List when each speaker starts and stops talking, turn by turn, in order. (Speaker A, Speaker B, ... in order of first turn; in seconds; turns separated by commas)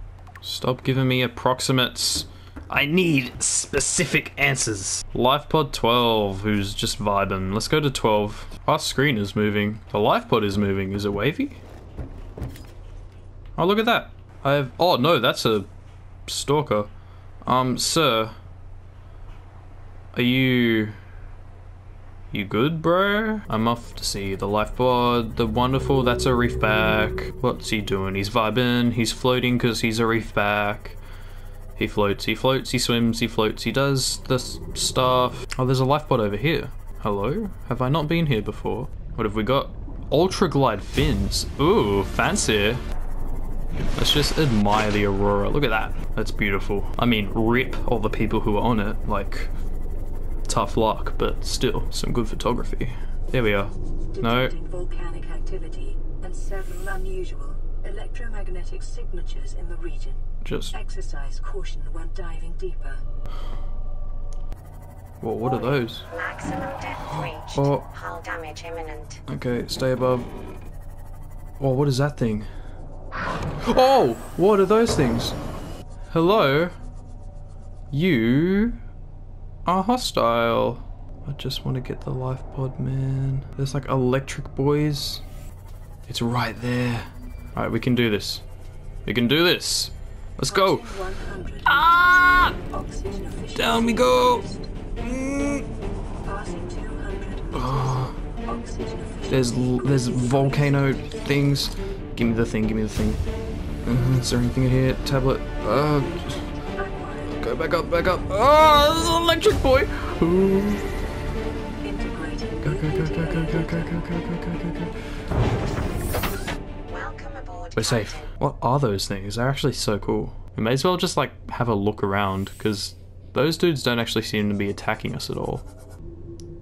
Speaker A: 0.4-11.6, Speaker A: 13.6-15.7, Speaker A: 16.3-16.9, Speaker A: 17.4-18.3, Speaker A: 20.1-21.0, Speaker A: 22.3-31.0, Speaker A: 31.8-42.8, Speaker A: 44.0-49.5, Speaker A: 50.5-54.5, Speaker B: 54.1-63.0, Speaker A: 60.4-60.8, Speaker A: 65.2-66.1, Speaker C: 65.6-69.2, Speaker A: 67.0-67.9, Speaker A: 69.3-70.3, Speaker A: 71.6-72.5, Speaker A: 73.6-75.4, Speaker A: 76.1-76.8, Speaker A: 77.9-78.8, Speaker A: 79.7-85.2, Speaker A: 86.1-88.4, Speaker A: 89.1-91.1, Speaker B: 90.5-94.7, Speaker A: 91.7-92.6, Speaker A: 93.5-94.5, Speaker A: 95.0-95.7, Speaker B: 96.2-100.8, Speaker A: 97.5-98.1, Speaker A: 99.3-103.2, Speaker A: 103.8-106.4, Speaker B: 106.8-107.4, Speaker A: 107.3-110.8, Speaker B: 111.8-114.0, Speaker A: 112.6-114.9, Speaker C: 116.9-118.3, Speaker A: 117.8-125.7